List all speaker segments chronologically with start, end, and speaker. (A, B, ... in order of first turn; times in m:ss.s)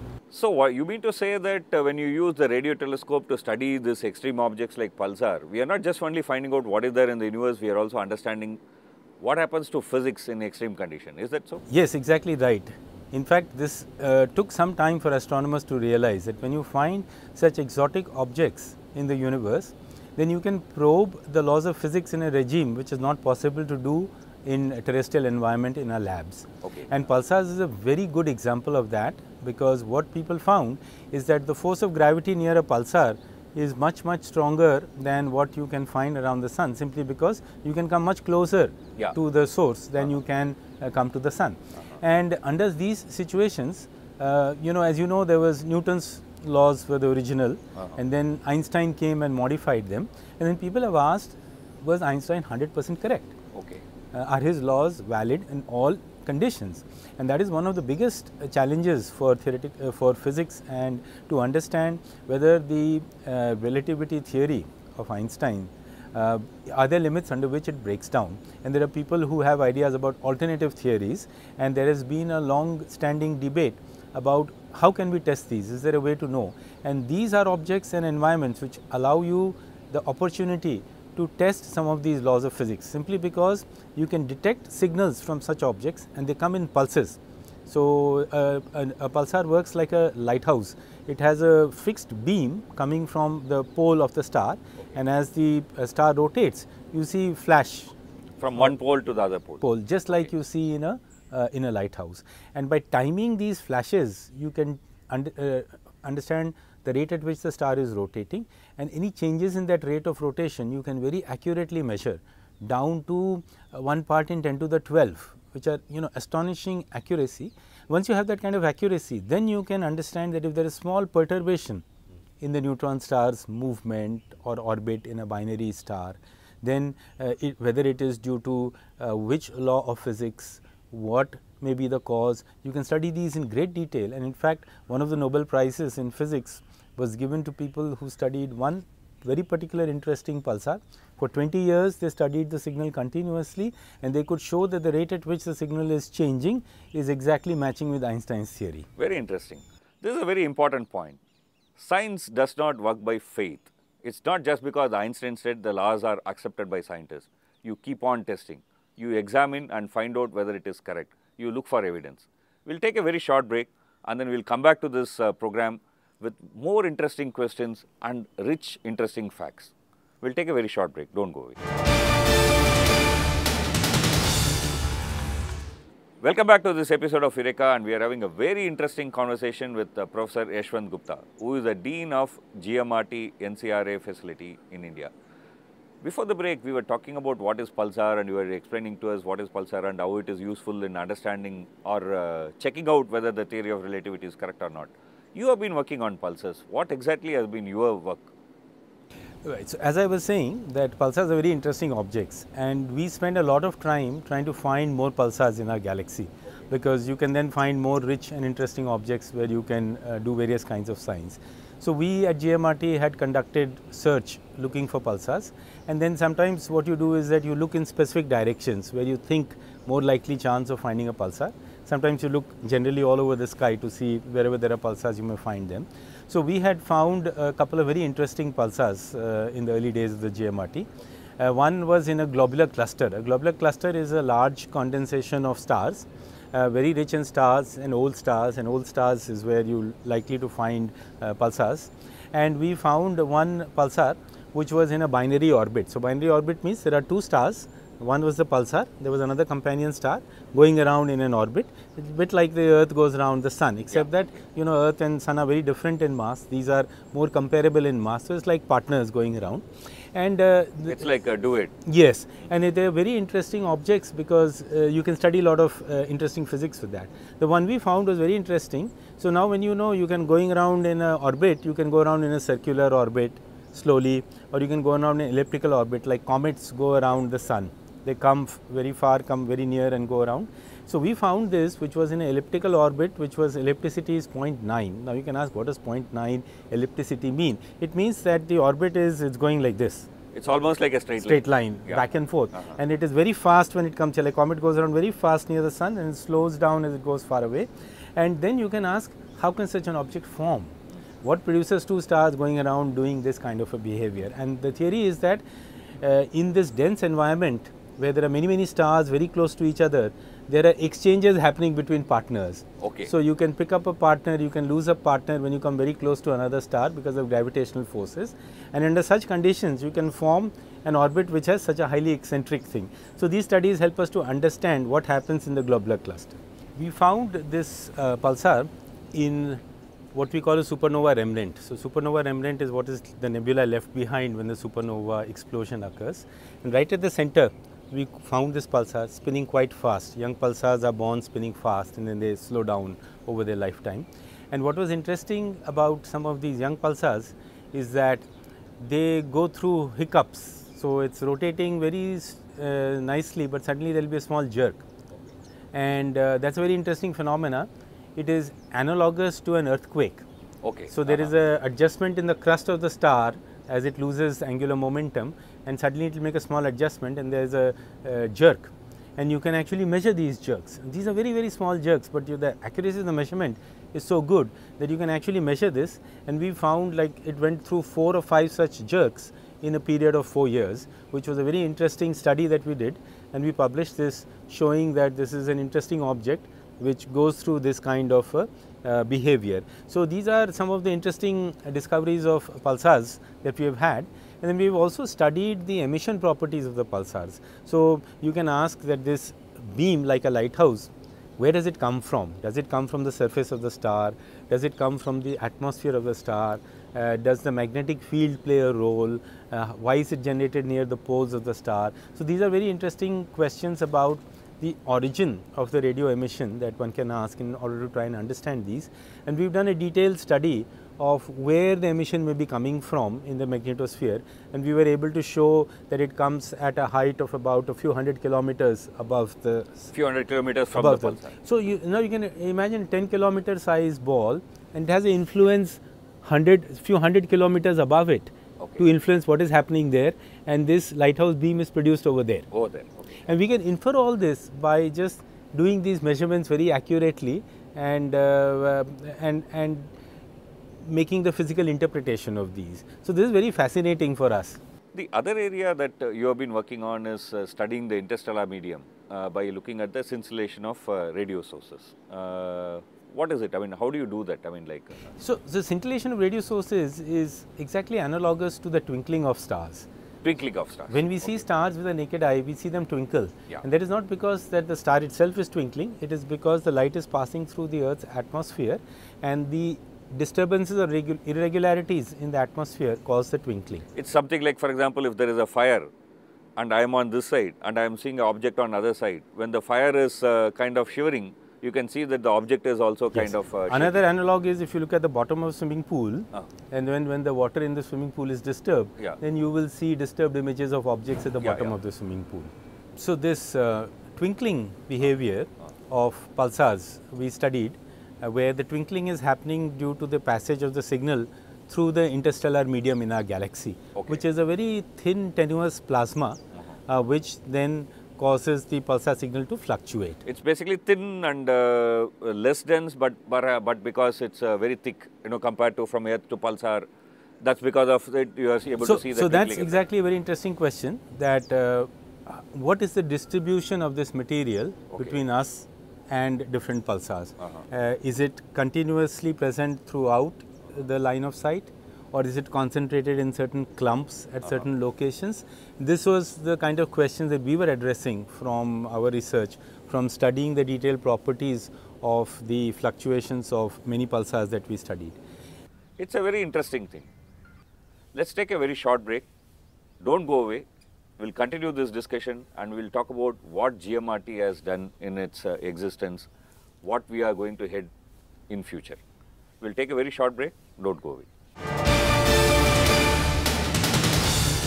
0:00.3-0:08.6 A
0:09.2-0:11.6 A
0:11.7-0:53.3 B
0:26.6-0:26.9 A
0:53.5-0:53.8 A
0:54.1-1:37.9 B
1:38.4-1:39.6 A
1:39.6-2:01.8 B
2:02.4-2:28.9 B
2:29.0-2:31.2 A
2:31.8-2:51.6 A
2:56.2-3:05.1 A
3:06.0-3:18.3 A
3:19.4-4:21.1 B
4:20.9-4:21.7 A
4:21.8-4:50.1 B
4:50.3-4:52.8 A
4:51.2-5:05.4 B
5:06.0-5:29.6 B
5:12.8-5:13.1 A
5:30.1-5:48.2 B
5:48.8-5:54.8 B
5:55.7-6:00.2 B
6:00.6-6:01.3 A
6:00.9-7:09.9 B
7:09.9-7:11.3 A
7:10.7-7:22.5 B
7:18.6-7:18.8 A
7:22.5-7:23.3 A
7:23.2-7:29.9 B
7:30.8-7:34.6 B
7:34.9-7:45.1 A
7:45.2-7:49.9 B
7:50.2-7:51.4 A
7:50.9-8:03.8 B
8:03.9-8:05.9 A
8:06.6-8:14.0 A
8:13.1-8:40.2 B
8:21.4-8:21.7 A
8:33.9-8:34.2 A
8:40.2-8:46.9 A
8:47.4-8:49.8 A
8:48.8-9:15.2 B
9:16.0-9:17.1 A
9:18.1-9:19.3 A
9:20.0-9:20.6 A
9:21.2-9:26.3 A
9:26.8-9:27.9 A
9:28.5-9:29.0 A
9:29.6-9:31.3 A